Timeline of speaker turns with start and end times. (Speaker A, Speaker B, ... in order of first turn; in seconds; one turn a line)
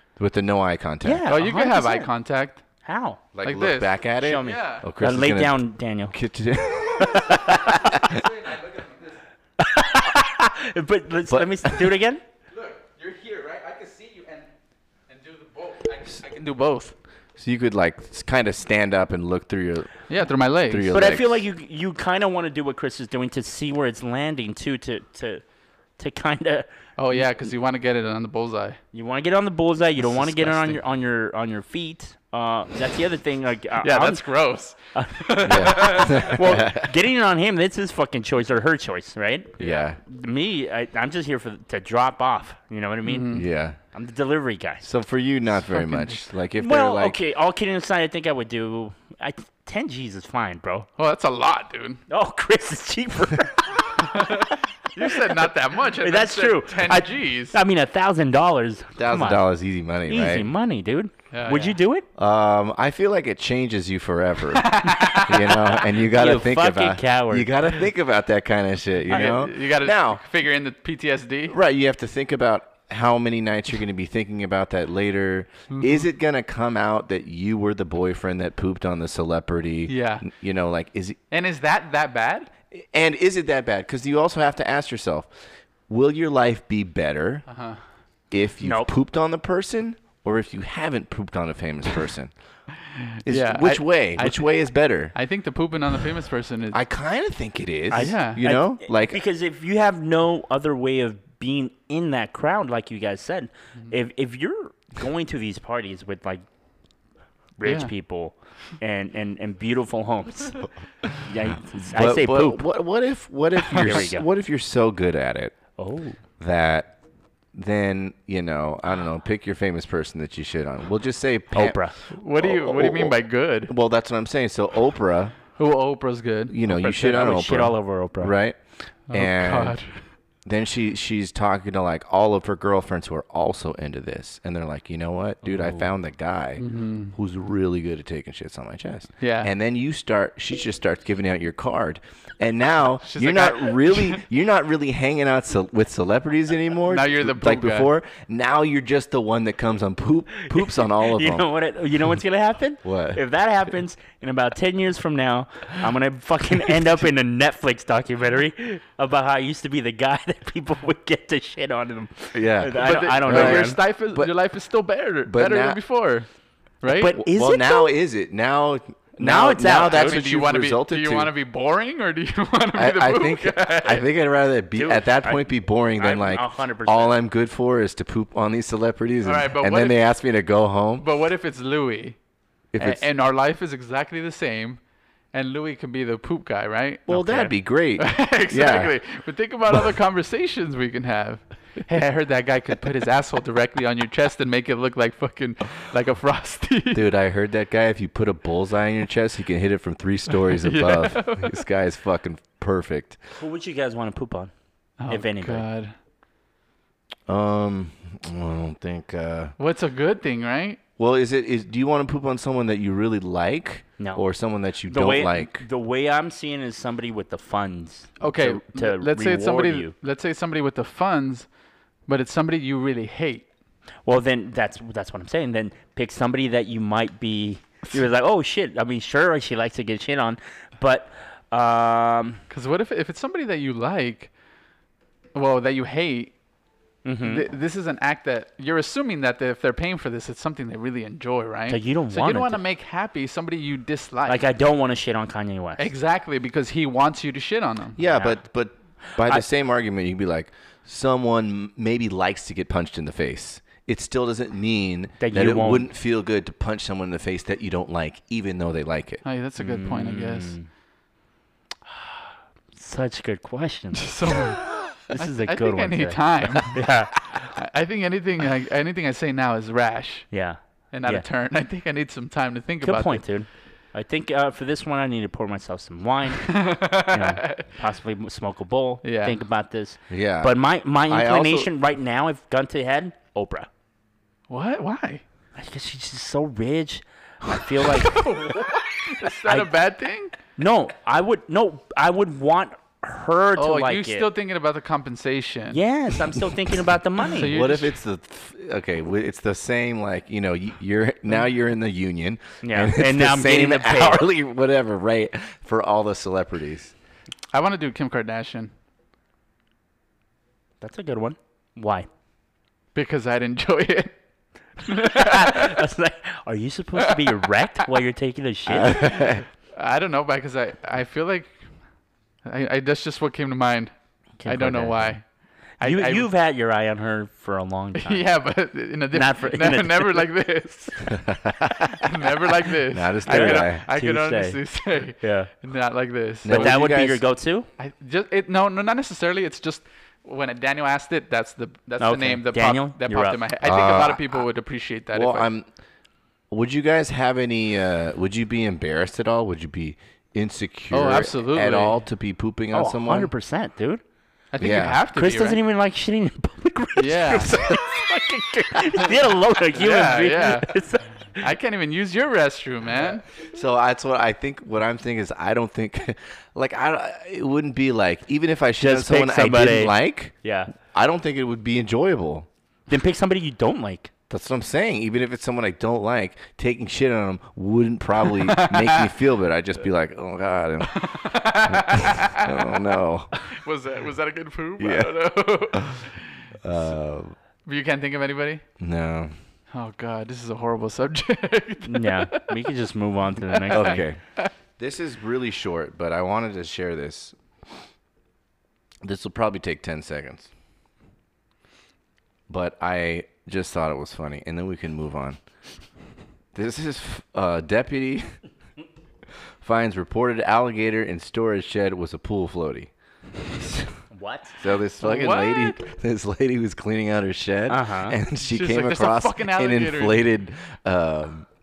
Speaker A: 0.2-1.2
Speaker B: 1.0-2.1
Speaker C: 1.3-2.6
Speaker B: 2.9-3.2
Speaker A: 3.3-8.3
Speaker C: 3.4-4.9
Speaker B: 4.2-6.2
Speaker B: 7.2-7.9
Speaker C: 8.1-9.1
Speaker B: 9.6-12.2
Speaker A: 11.3-11.9
Speaker C: 12.5-14.5
Speaker C: 15.1-16.9
Speaker A: 17.4-20.0
Speaker C: 20.1-20.9
Speaker A: 20.7-21.4
Speaker B: 20.9-25.4
Speaker B: 26.0-27.2
Speaker C: 27.0-28.8
Speaker B: 28.9-34.3
Speaker C: 30.0-30.8
Speaker C: 33.8-36.4
Speaker B: 34.9-44.8
Speaker A: 35.5-36.9
Speaker A: 39.6-40.0
Speaker C: 39.6-39.9
Speaker C: 43.0-43.4
Speaker A: 43.3-43.8
Speaker A: 44.8-47.2
Speaker C: 45.7-46.2
Speaker B: 46.6-50.9
Speaker C: 51.0-52.0
Speaker B: 52.1-55.4
Speaker C: 54.0-57.6
Speaker B: 56.0-59.5
Speaker A: 59.0-60.5
Speaker B: 60.0-62.1
Speaker C: 61.3-61.8
Speaker A: 62.2-70.2
Speaker C: 64.5-65.6
Speaker B: 66.0-67.5
Speaker C: 69.1-71.5
Speaker A: 71.5-81.2
Speaker C: 75.7-76.0
Speaker C: 79.9-80.3
Speaker C: 81.3-82.5
Speaker A: 82.7-87.5
Speaker C: 87.5-87.8
Speaker A: 88.3-92.3
Speaker B: 88.6-88.9
Speaker C: 92.9-94.5
Speaker A: 93.3-95.1
Speaker C: 95.1-96.8
Speaker A: 96.7-99.2
Speaker B: 97.9-106.4
Speaker C: 97.9-98.4
Speaker B: 107.6-110.7
Speaker C: 107.6-107.9
Speaker B: 111.2-112.7
Speaker A: 112.0-115.6
Speaker B: 113.7-114.3
Speaker B: 115.8-116.2
Speaker A: 116.4-116.9
Speaker A: 117.5-121.8
Speaker B: 121.5-122.0
Speaker C: 122.1-123.7
Speaker A: 122.3-125.3
Speaker C: 125.6-126.5
Speaker A: 126.5-128.6
Speaker B: 126.7-128.3
Speaker C: 129.1-130.0
Speaker A: 129.1-129.8
Speaker A: 130.4-151.5
Speaker B: 135.4-135.9
Speaker C: 136.6-137.1
Speaker C: 139.2-139.5
Speaker C: 143.0-144.2
Speaker C: 146.9-147.9
Speaker B: 150.5-163.8
Speaker A: 152.8-153.2
Speaker A: 162.3-164.3
Speaker C: 162.8-166.3
Speaker A: 165.3-165.8
Speaker C: 166.8-167.2
Speaker B: 166.9-167.9
Speaker A: 167.1-171.3
Speaker B: 169.2-170.2
Speaker C: 169.9-174.1
Speaker A: 172.8-181.1
Speaker B: 174.8-175.4
Speaker B: 175.9-177.2
Speaker C: 179.2-180.0
Speaker C: 181.0-182.2
Speaker A: 182.7-183.1
Speaker C: 182.8-184.8
Speaker C: 185.3-187.4
Speaker A: 187.1-188.9
Speaker B: 187.2-187.5
Speaker C: 188.0-197.0
Speaker A: 196.9-203.2
Speaker C: 200.5-201.6
Speaker B: 203.4-204.5
Speaker C: 205.0-205.9
Speaker B: 205.1-205.7
Speaker A: 207.3-209.6
Speaker C: 209.6-210.8
Speaker A: 211.0-215.7
Speaker B: 214.0-214.2
Speaker B: 214.9-219.9
Speaker C: 218.2-221.5
Speaker C: 222.1-223.5
Speaker B: 224.1-232.4
Speaker C: 232.5-234.3
Speaker C: 235.3-236.3
Speaker B: 237.1-237.4
Speaker C: 237.2-244.4
Speaker B: 241.7-242.6
Speaker B: 244.3-245.9
Speaker C: 245.8-248.0
Speaker A: 248.0-259.2
Speaker B: 248.0-248.4
Speaker B: 249.2-249.4
Speaker B: 255.2-255.9
Speaker C: 259.2-260.6
Speaker B: 259.6-260.7
Speaker B: 262.8-264.5
Speaker C: 264.0-266.8
Speaker B: 265.1-267.3
Speaker C: 267.6-270.3
Speaker B: 270.3-271.2
Speaker C: 270.9-273.2
Speaker B: 272.8-283.7
Speaker C: 276.4-277.7
Speaker C: 279.0-279.4
Speaker A: 280.1-280.6
Speaker A: 281.1-281.7
Speaker C: 284.5-285.2
Speaker B: 285.6-288.6
Speaker C: 287.8-290.4
Speaker B: 289.4-289.7
Speaker B: 290.6-294.3
Speaker C: 293.6-295.8
Speaker B: 295.7-297.5
Speaker C: 297.3-297.9
Speaker A: 297.4-306.9
Speaker B: 302.6-304.3
Speaker C: 307.5-308.7
Speaker B: 310.8-312.1
Speaker C: 312.9-314.1
Speaker C: 314.8-315.8
Speaker B: 314.9-319.3
Speaker C: 317.0-317.3
Speaker A: 318.7-319.4
Speaker C: 318.9-321.5
Speaker C: 322.4-323.9
Speaker B: 324.4-325.1
Speaker C: 324.5-325.2
Speaker C: 325.8-326.3
Speaker B: 325.8-328.3
Speaker C: 328.0-331.2
Speaker B: 329.1-330.3
Speaker A: 331.1-332.0
Speaker C: 331.9-336.8
Speaker A: 332.9-333.8
Speaker B: 333.3-334.6
Speaker B: 335.2-335.5
Speaker A: 336.4-337.2
Speaker B: 336.5-337.7
Speaker C: 337.8-345.5
Speaker B: 342.0-343.4
Speaker A: 343.6-344.4
Speaker A: 345.1-345.7
Speaker A: 346.5-353.3
Speaker C: 350.9-352.0
Speaker B: 352.7-354.0
Speaker C: 354.5-355.6
Speaker A: 354.6-355.0
Speaker B: 355.1-361.5
Speaker C: 357.0-357.6
Speaker A: 357.5-357.8
Speaker C: 359.8-360.8
Speaker C: 361.4-363.2
Speaker A: 363.4-370.4
Speaker B: 368.8-370.7
Speaker A: 370.9-372.5
Speaker B: 372.9-374.1
Speaker A: 374.3-383.4
Speaker C: 378.4-379.1
Speaker C: 380.9-382.8
Speaker C: 383.4-386.5
Speaker A: 384.8-386.1
Speaker A: 386.6-387.4
Speaker C: 387.6-388.6
Speaker A: 388.8-389.3
Speaker C: 389.7-392.5
Speaker B: 391.9-394.0
Speaker A: 393.7-394.2
Speaker C: 393.7-394.5
Speaker A: 394.8-397.4
Speaker A: 399.0-400.5
Speaker A: 402.5-405.4
Speaker A: 406.5-408.4
Speaker A: 409.6-412.9
Speaker A: 413.5-414.0
Speaker B: 414.1-414.6
Speaker A: 414.6-421.5
Speaker C: 415.0-415.8
Speaker B: 417.7-418.2
Speaker C: 418.4-420.2